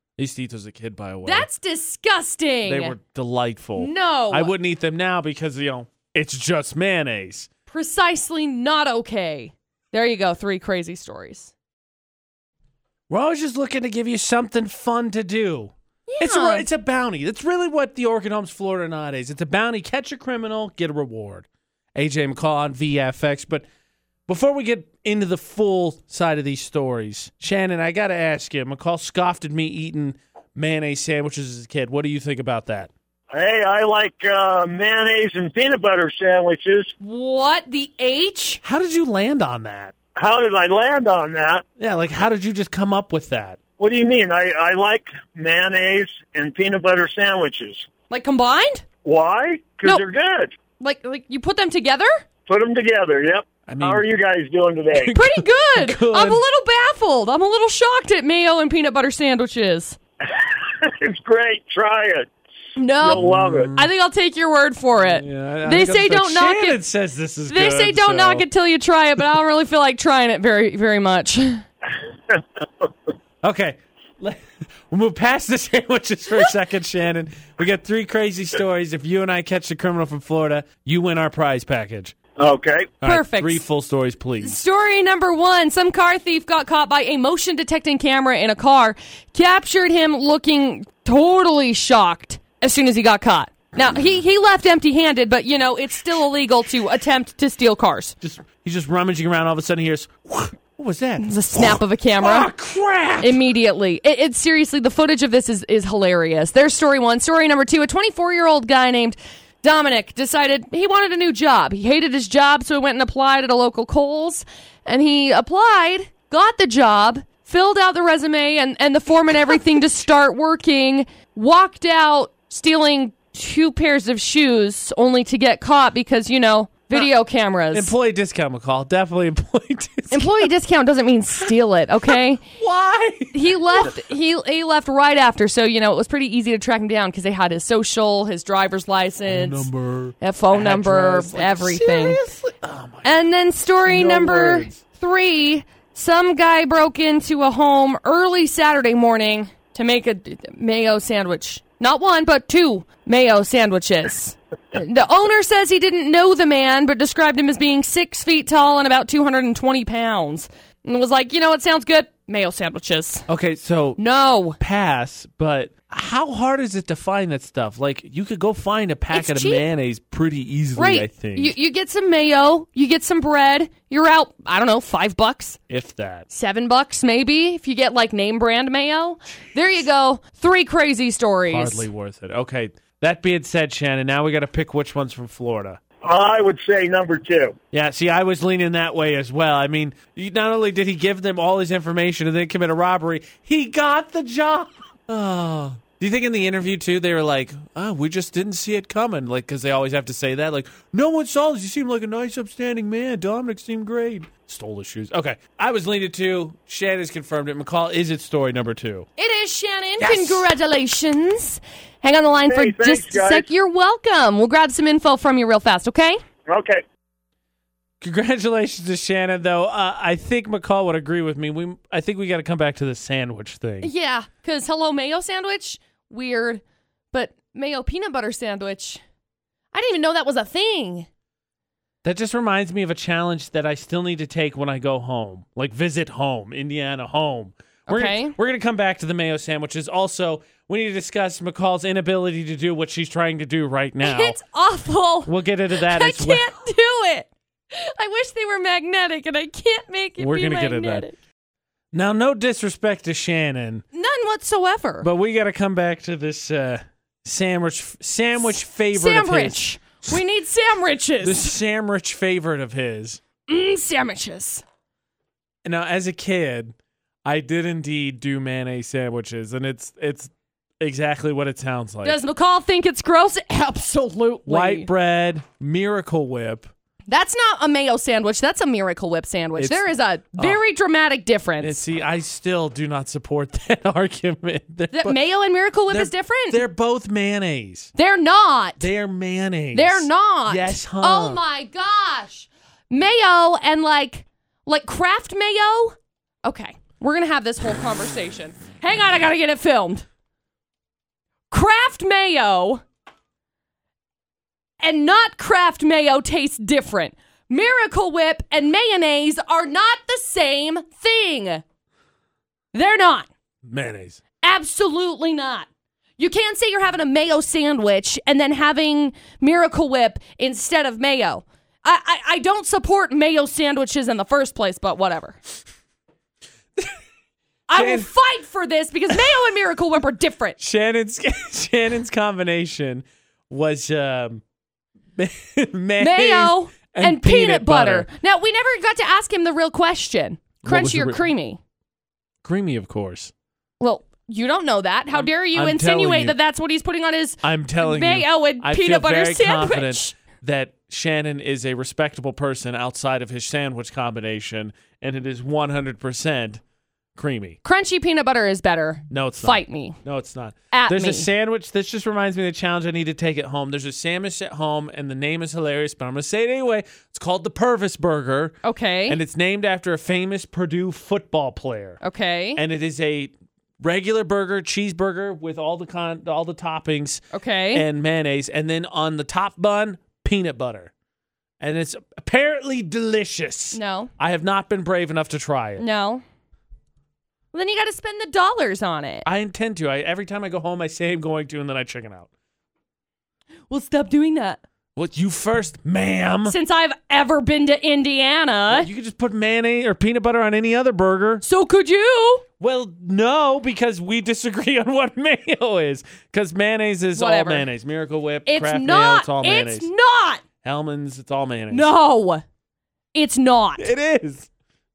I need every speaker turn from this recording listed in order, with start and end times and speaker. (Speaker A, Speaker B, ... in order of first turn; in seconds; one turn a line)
Speaker A: 0.2-1.5
Speaker B: 1.2-3.0
Speaker A: 2.6-7.5
Speaker B: 3.8-4.5
Speaker B: 7.7-11.5
Speaker A: 13.1-23.6
Speaker B: 16.1-16.6
Speaker A: 24.3-32.9
Speaker C: 33.3-36.9
Speaker B: 37.0-38.6
Speaker A: 38.6-39.9
Speaker C: 40.1-41.6
Speaker A: 41.8-43.6
Speaker C: 43.8-47.9
Speaker B: 48.1-48.9
Speaker C: 49.0-50.6
Speaker B: 50.8-52.2
Speaker C: 52.5-55.1
Speaker A: 53.7-54.0
Speaker A: 55.0-56.4
Speaker B: 55.1-60.0
Speaker C: 60.3-62.3
Speaker B: 62.8-66.8
Speaker A: 63.0-63.9
Speaker C: 63.0-63.7
Speaker A: 65.0-68.4
Speaker B: 67.5-71.6
Speaker A: 73.4-82.2
Speaker C: 82.4-82.9
Speaker A: 83.0-84.6
Speaker B: 83.0-83.6
Speaker B: 84.4-98.2
Speaker A: 98.2-103.4
Speaker B: 101.2-102.5
Speaker B: 103.2-127.9
Speaker A: 127.7-130.5
Speaker B: 130.1-132.4
Speaker A: 132.6-134.1
Speaker B: 133.3-139.7
Speaker A: 139.3-143.1
Speaker B: 140.2-142.2
Speaker B: 143.0-163.3
Speaker A: 143.8-144.8
Speaker A: 163.3-164.0
Speaker B: 164.0-164.6
Speaker A: 164.6-171.5
Speaker B: 169.1-169.6
Speaker B: 170.8-175.6
Speaker A: 175.7-176.2
Speaker B: 176.3-181.9
Speaker A: 181.5-185.8
Speaker C: 186.0-187.6
Speaker A: 187.7-209.1
Speaker B: 209.2-216.2
Speaker A: 210.0-210.4
Speaker C: 212.5-213.5
Speaker C: 216.5-216.8
Speaker A: 218.0-223.9
Speaker B: 223.8-229.0
Speaker B: 229.7-231.1
Speaker A: 232.0-244.4
Speaker B: 237.9-238.4
Speaker B: 244.0-251.2
Speaker A: 245.2-246.5
Speaker A: 250.2-251.1
Speaker A: 251.9-253.8
Speaker B: 253.9-255.1
Speaker A: 255.0-260.2
Speaker B: 258.9-261.5
Speaker A: 261.2-263.2
Speaker B: 263.5-264.6
Speaker A: 265.6-272.2
Speaker B: 272.0-274.9
Speaker A: 274.4-276.7
Speaker B: 277.1-281.8
Speaker A: 279.6-280.6
Speaker A: 281.6-285.2
Speaker B: 284.9-286.6
Speaker A: 285.9-287.9
Speaker B: 287.9-288.9
Speaker A: 288.8-291.4
Speaker B: 289.7-300.1
Speaker B: 301.5-302.8
Speaker B: 304.8-311.6
Speaker B: 312.7-313.3
Speaker A: 313.6-314.2
Speaker B: 314.4-325.4
Speaker B: 327.7-330.6
Speaker A: 327.7-328.1
Speaker A: 330.6-334.4
Speaker A: 335.1-338.1
Speaker B: 336.0-341.6
Speaker A: 340.6-341.2
Speaker A: 342.4-343.3
Speaker B: 343.8-350.2
Speaker A: 345.1-346.4
Speaker A: 347.4-356.6
Speaker A: 357.1-357.6
Speaker B: 357.6-360.0
Speaker A: 359.1-368.6
Speaker B: 360.7-361.3
Speaker B: 368.6-369.2
Speaker A: 369.1-372.0
Speaker B: 372.0-372.6
Speaker A: 372.6-380.9
Speaker B: 377.3-377.9
Speaker A: 381.6-385.8
Speaker B: 383.7-384.1
Speaker B: 385.8-386.2
Speaker B: 387.5-389.2
Speaker A: 389.2-392.3
Speaker B: 393.7-394.6
Speaker A: 394.9-396.6
Speaker B: 396.4-398.9
Speaker A: 398.7-401.4
Speaker B: 401.4-402.4
Speaker A: 402.6-409.9
Speaker B: 407.1-407.7
Speaker B: 408.4-410.4
Speaker A: 410.6-411.9
Speaker B: 411.7-412.4
Speaker B: 413.1-413.9
Speaker A: 413.8-414.5